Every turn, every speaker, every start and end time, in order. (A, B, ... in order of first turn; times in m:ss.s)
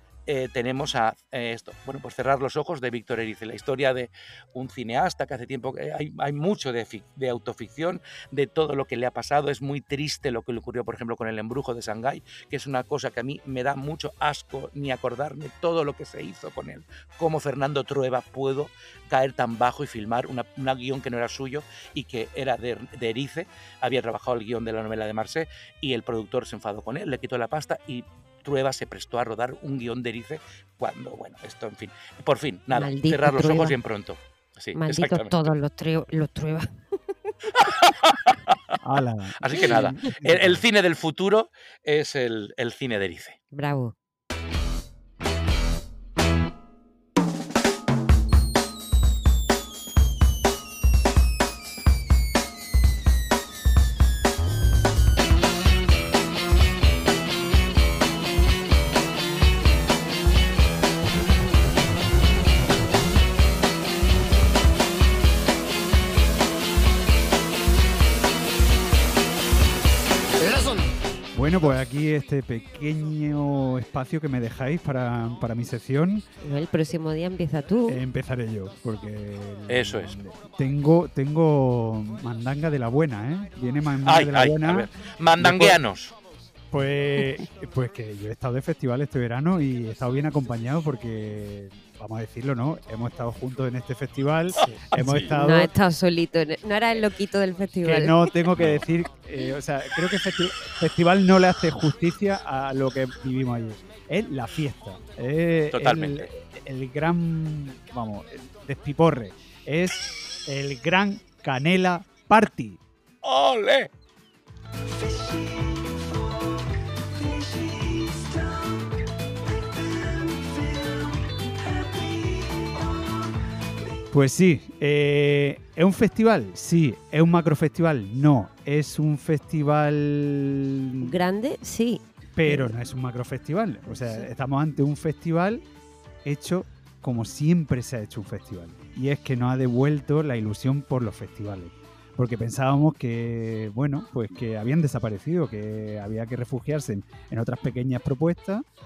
0:00.3-0:35.5 A
0:32.7-0:33.7 B
0:34.7-0:37.3 B
0:37.5-0:38.5 A
0:38.8-0:40.6 C
0:39.4-0:43.4 A
0:43.5-0:43.9 B
1:11.3-1:16.2 C
1:16.4-1:18.0 B
1:17.9-1:25.8 C
1:19.7-1:20.2 A
1:24.0-1:26.1 A
1:26.7-1:35.7 C
1:34.9-1:35.3 A
1:35.3-1:38.3 B
1:37.8-1:52.8 C
1:38.6-1:38.8 A
1:45.7-1:46.3 A
1:53.2-1:53.9 A
2:04.1-2:11.2 C
2:11.0-2:12.7 B
2:12.3-2:15.6 C
2:16.2-2:28.6 C